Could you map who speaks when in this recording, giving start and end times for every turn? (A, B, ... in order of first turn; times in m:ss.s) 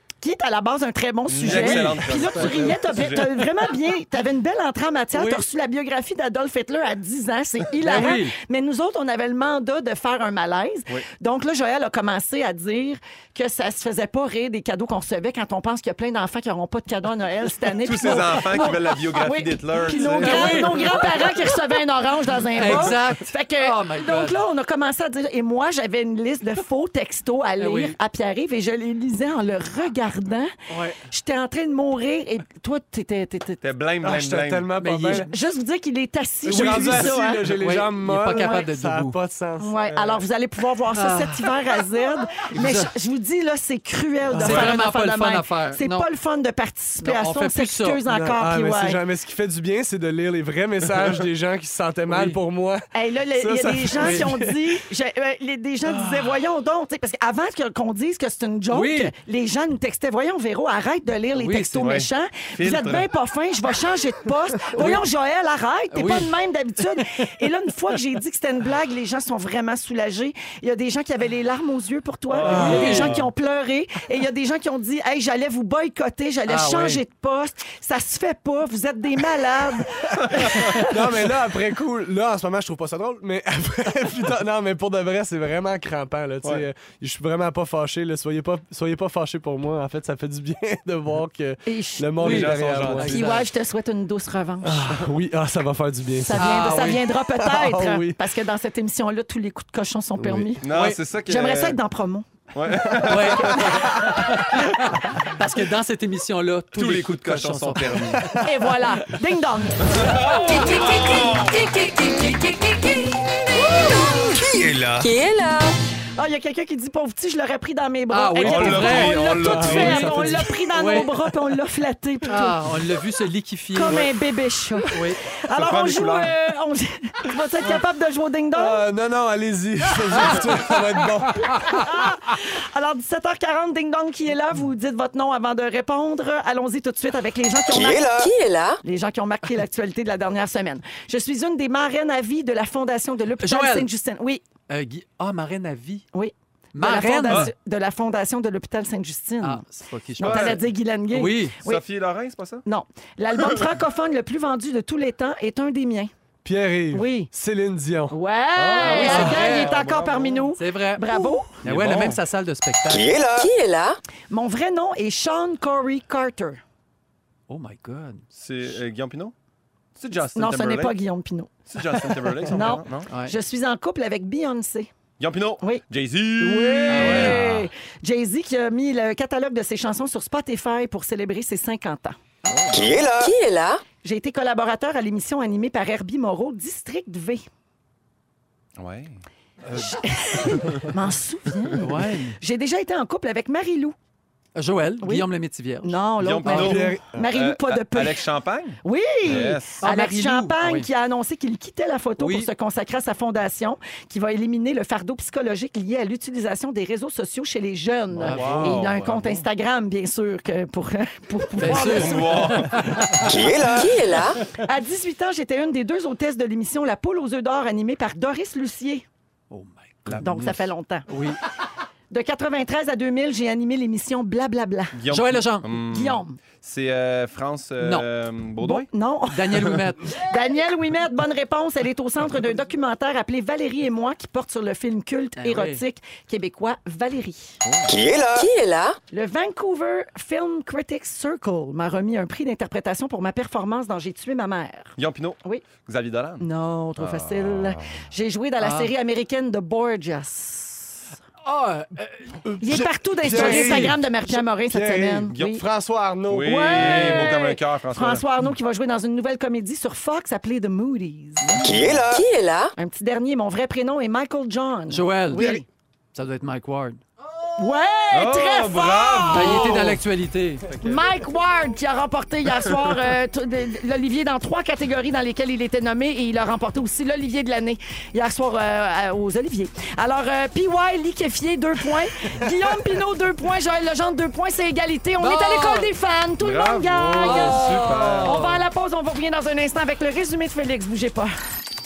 0:00.2-0:30.5 A
0:01.3-0:03.5 B
0:01.3-0:02.8 C
0:05.1-0:05.4 C
0:07.8-0:08.3 C
0:17.8-0:21.1 B
0:20.2-0:21.6 C
0:22.6-0:24.4 C
0:27.6-0:27.9 C
0:30.7-0:31.0 C
0:31.1-0:33.6 A
0:33.6-0:34.7 B
0:34.0-0:35.3 D
0:34.8-0:35.3 C
0:35.2-0:37.5 A
0:36.4-0:40.2 D
0:36.5-0:39.2 C
0:38.3-0:38.5 A
0:39.6-0:49.0 A
0:40.9-0:41.5 C
0:42.5-0:42.9 C
0:44.3-0:44.7 D
0:44.4-0:46.1 C
0:47.0-0:48.0 C
0:48.0-0:52.8 D
0:52.1-0:52.4 C
0:52.9-1:21.0 A
0:53.4-0:54.8 D
0:54.0-0:54.3 C
0:58.7-0:59.1 C
1:01.3-1:01.9 C
1:01.8-1:03.1 B
1:04.7-1:05.0 C
1:05.9-1:07.3 C
1:12.3-1:13.2 B
1:12.4-1:13.1 D
1:12.4-1:13.2 C
1:16.5-1:17.0 C
1:20.1-1:20.7 B
1:20.8-1:33.2 D
1:31.6-1:32.3 A
1:32.2-1:33.5 C
1:32.2-1:33.2 B
1:33.0-1:35.1 A
1:34.6-1:36.5 D
1:36.2-1:40.6 A
1:36.4-1:37.1 C
1:37.3-1:38.2 D
1:40.2-1:40.5 D
1:40.6-1:41.8 B
1:40.7-1:41.0 C
1:41.2-1:42.2 A
1:42.5-1:44.0 B
1:42.8-1:43.9 D
1:43.0-1:48.3 C
1:46.7-1:48.4 B
1:48.4-1:51.2 A
1:49.8-1:51.6 B
1:50.0-1:50.7 C
1:50.4-1:53.1 E
1:53.8-1:54.1 A
1:53.8-1:55.7 E
1:53.8-1:55.1 B
1:56.2-2:02.6 A
1:58.1-2:01.1 C
1:58.4-2:00.2 B
1:59.2-2:00.8 D
2:02.3-2:04.0 C
2:03.7-2:08.8 A
2:04.9-2:05.2 C
2:05.4-2:06.4 B
2:08.5-2:11.8 D
2:10.2-2:10.8 C
2:11.6-2:18.0 A
2:17.7-2:18.3 F
2:17.7-2:18.8 E
2:18.8-2:24.4 A
2:23.4-2:23.9 C
2:24.7-2:26.1 C
2:26.1-2:29.6 A
2:26.7-2:27.5 C
2:29.4-2:31.6 C
2:30.2-2:31.8 A
2:30.2-2:30.6 B
2:31.6-2:32.6 B
2:32.6-2:36.1 A
2:36.4-2:38.1 D
2:36.9-2:37.3 A
2:38.1-2:41.5 A
2:38.6-2:40.4 B
2:38.8-2:39.8 C
2:40.6-2:43.1 C
2:41.6-2:42.2 B
2:42.9-2:43.5 F
2:43.4-2:44.0 E
2:44.3-2:46.6 A
2:47.5-2:48.2 C
2:48.3-2:49.3 B
2:50.0-2:51.0 B
2:50.2-2:51.5 A
2:51.7-2:53.1 B
2:52.4-2:54.9 A
2:53.1-2:53.3 C
2:55.2-2:57.7 B
2:56.4-3:02.2 A
2:56.9-2:57.4 C
3:02.4-3:03.0 B
3:02.7-3:03.3 F
3:03.2-3:03.8 E
3:04.0-3:07.4 A
3:08.8-3:10.9 B
3:09.7-3:13.9 A
3:11.8-3:12.4 C
3:14.5-3:16.8 C
3:15.0-3:15.2 A
3:15.8-3:18.2 A
3:16.2-3:19.8 B
3:16.5-3:17.2 D
3:18.8-3:32.6 A
3:19.4-3:20.9 C
3:22.2-3:22.5 C
3:28.1-3:29.4 B
3:28.2-3:28.9 C
3:31.6-3:33.3 C
3:31.6-3:33.2 B
3:33.2-3:34.1 F
3:33.8-3:34.4 E
3:34.5-3:39.0 A
3:39.5-3:40.5 C
3:40.0-3:40.5 B
3:40.2-3:41.1 A
3:41.1-3:41.4 C
3:42.1-3:45.0 A
3:44.9-3:48.9 B
3:45.1-3:45.6 C
3:45.7-3:46.4 A
3:47.8-3:48.1 C
3:48.6-3:57.6 A
3:49.3-3:50.1 C
3:55.4-3:55.8 C
3:57.6-3:57.9 B
3:57.9-3:58.5 F
3:58.4-3:59.0 E
3:59.1-4:05.6 A
4:05.0-4:07.9 B
4:06.4-4:11.1 A
4:08.6-4:08.9 C
4:11.4-4:12.5 C
4:12.5-4:17.3 D
4:12.6-4:15.6 A
4:13.2-4:14.0 C
4:16.3-4:18.2 B
4:16.4-4:21.6 A
4:21.4-4:21.9 C
4:21.6-4:22.2 F
4:22.1-4:22.7 E
4:22.8-4:25.6 A
4:24.9-4:27.0 C
4:25.3-4:25.6 D
4:27.6-4:29.8 A
4:28.1-4:30.0 B
4:29.3-4:30.7 C
4:30.7-4:31.0 B
4:30.8-4:51.3 A
4:45.2-4:45.9 C
4:46.4-4:48.4 B
4:47.2-4:48.6 C